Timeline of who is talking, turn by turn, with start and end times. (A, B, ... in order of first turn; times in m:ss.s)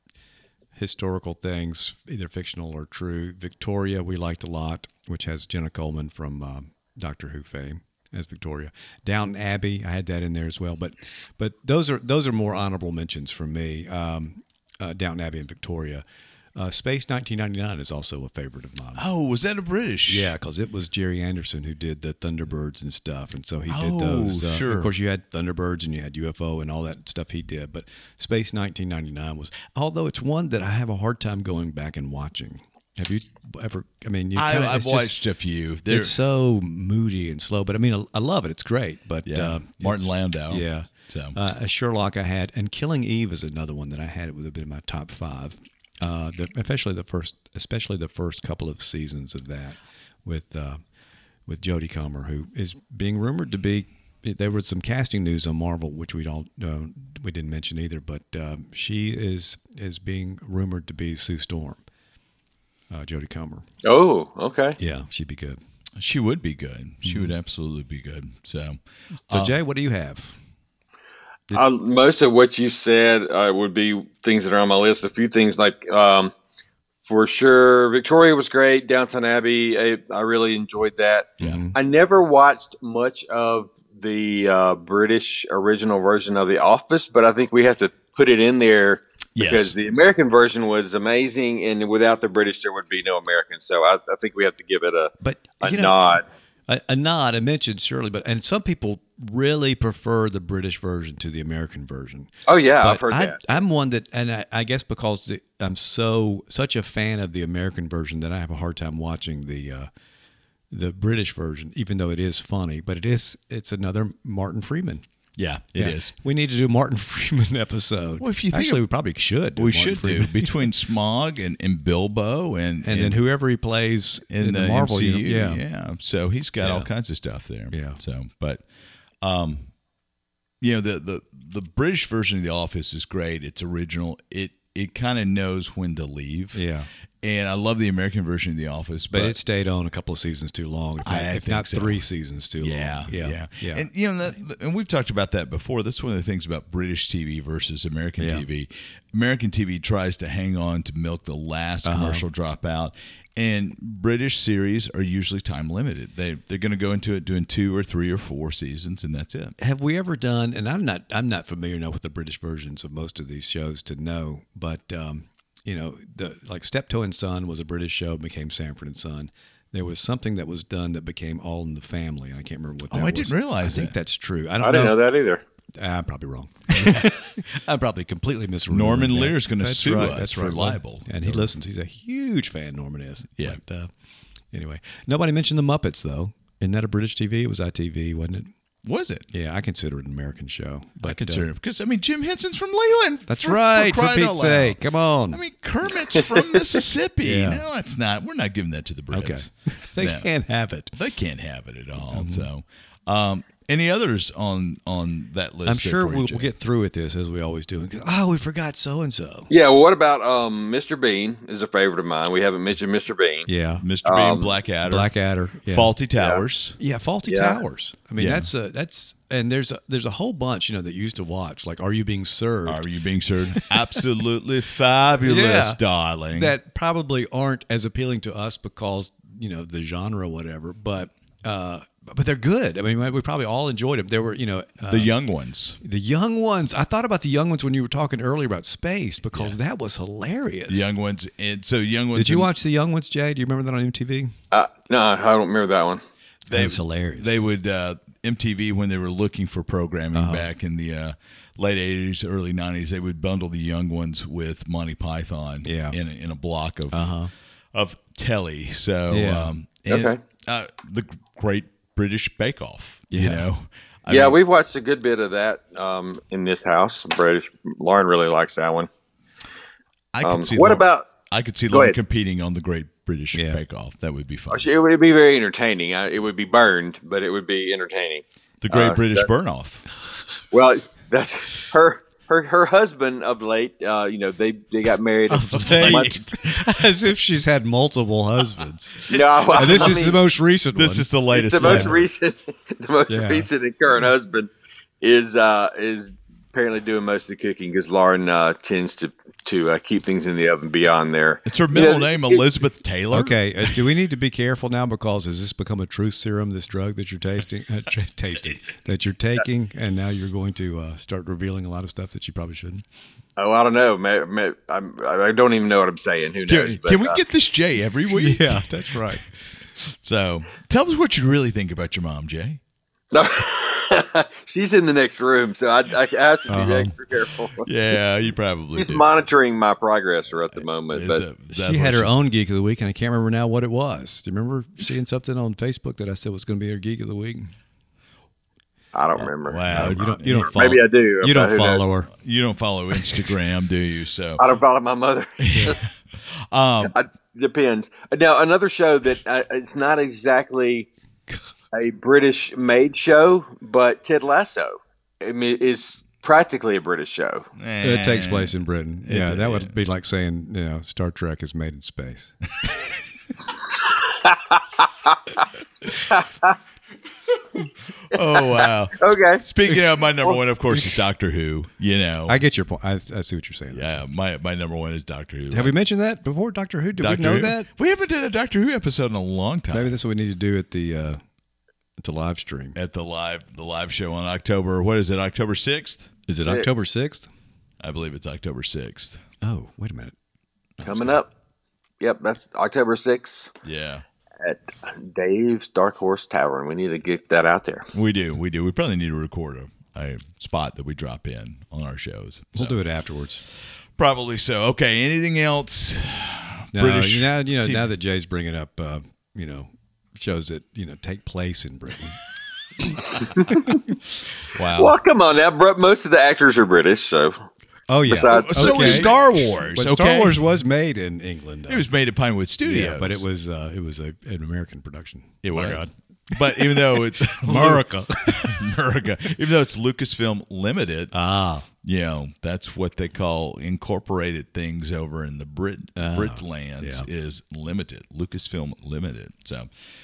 0:00.8-0:16.0 A
0:16.6-0:19.0 A
0:19.0-0:20.3 B
0:20.1-0:35.2 A
0:23.7-0:24.9 B
0:34.4-0:36.2 B
0:35.9-0:50.8 A
0:39.2-0:41.4 B
0:51.4-1:01.8 A
1:02.9-1:03.7 A
1:03.8-1:04.8 C
1:04.8-1:05.6 A
1:06.0-1:09.5 B
1:07.0-1:07.3 A
1:09.2-1:10.4 A
1:11.5-1:16.3 C
1:17.0-1:36.2 C
1:21.4-1:21.8 A
1:29.4-1:29.8 B
1:35.2-1:49.9 A
1:42.5-1:43.6 C
1:50.7-1:55.0 A
1:55.4-1:56.1 B
1:55.8-2:00.7 A
1:58.2-1:58.8 B
1:59.6-2:03.2 B
2:02.8-2:05.6 A
2:04.3-2:08.7 B
2:06.6-2:06.9 A
2:07.7-2:08.0 A
2:09.2-2:09.7 B
2:10.6-2:16.6 B
2:16.5-2:16.9 A
2:17.2-2:19.4 B
2:19.1-2:23.9 A
2:21.0-2:22.1 B
2:22.6-2:39.6 B
2:28.2-2:28.4 A
2:31.8-2:32.2 A
2:39.6-2:55.0 A
2:52.9-2:53.9 B
2:54.6-2:55.4 C
2:55.8-3:03.9 A
2:56.7-2:57.1 B
2:58.7-3:01.6 B
3:04.5-3:08.5 A
3:08.8-3:09.3 B
3:09.3-3:11.5 A
3:11.0-3:14.8 B
3:13.3-3:15.4 A
3:15.3-3:20.3 B
3:17.2-3:17.6 A
3:19.1-3:21.0 A
3:21.0-3:26.5 B
3:22.0-3:22.5 A
3:25.6-3:29.5 A
3:29.5-3:33.5 C
3:33.5-3:33.8 A
3:33.8-3:35.1 B
3:34.0-3:34.5 C
3:34.8-3:36.0 A
3:35.7-3:36.8 B
3:36.8-3:42.8 A
3:37.3-3:37.6 C
3:38.2-3:38.5 B
3:42.7-3:46.5 B
3:43.5-3:44.0 A
3:45.2-3:55.1 A
3:54.9-3:55.8 B
3:55.8-4:00.9 A
4:00.7-4:02.5 B
4:02.1-4:04.4 A
4:04.5-4:06.0 C
4:06.5-4:17.2 B
4:06.5-4:07.4 A
4:10.1-4:10.5 A
4:15.6-4:16.0 A
4:16.9-4:17.3 A
4:17.7-4:24.4 B
4:19.1-4:19.5 A
4:19.9-4:20.2 C
4:23.1-4:23.5 A
4:24.1-4:28.9 C
4:30.1-4:34.6 B
4:30.2-4:31.1 C
4:31.7-4:32.0 C
4:33.3-4:33.6 A
4:34.5-4:39.4 C
4:38.6-4:39.9 B
4:40.5-4:46.1 C
4:45.3-4:52.0 A
4:45.6-4:46.2 B
4:49.1-4:50.2 C
4:49.1-4:50.0 B
4:50.7-4:52.1 B
4:51.3-4:54.5 C
4:53.1-4:53.5 A
4:55.0-5:02.4 C
5:01.5-5:03.4 B
5:03.1-5:12.8 A
5:13.4-5:17.2 C
5:16.5-5:19.2 B
5:18.1-5:19.4 A
5:19.8-5:22.6 B
5:23.1-5:28.2 C
5:26.5-5:27.0 A
5:27.6-5:29.1 B
5:28.8-5:31.2 C
5:30.9-5:32.1 B
5:31.5-5:37.6 A
5:38.9-5:41.8 C
5:39.2-5:40.7 B
5:39.7-5:42.1 A
5:42.1-5:44.4 B
5:44.4-5:45.8 C
5:45.4-5:47.0 B
5:46.8-5:50.9 C
5:51.7-5:57.5 C
5:57.6-5:59.8 B
5:57.8-6:02.4 A
6:03.7-6:05.4 C
6:06.1-6:06.6 C
6:08.0-6:12.4 B
6:08.1-6:09.4 C
6:12.3-6:14.0 A
6:13.7-6:15.8 B
6:15.5-6:17.7 A
6:17.0-6:19.9 B
6:19.7-6:21.2 A
6:22.0-6:22.8 A
6:22.8-6:26.1 B
6:26.3-6:27.3 A
6:27.8-6:29.2 B
6:29.4-6:30.2 A
6:30.8-6:31.1 B
6:30.8-6:31.3 C
6:32.0-6:33.5 C
6:33.6-6:34.1 B
6:34.4-6:37.9 C
6:37.9-6:42.8 B
6:42.6-6:43.4 A
6:44.0-6:47.9 B
6:46.7-6:52.2 A
6:53.4-6:53.8 C
6:53.5-6:53.8 A
6:54.5-6:55.0 B
6:54.8-6:57.4 C
6:57.9-7:01.9 A
6:58.1-6:59.2 C
6:58.3-7:00.4 B
7:01.7-7:03.2 B
7:02.6-7:08.7 A
7:05.4-7:11.1 B
7:11.1-7:11.7 A
7:11.8-7:19.7 B
7:16.0-7:17.1 A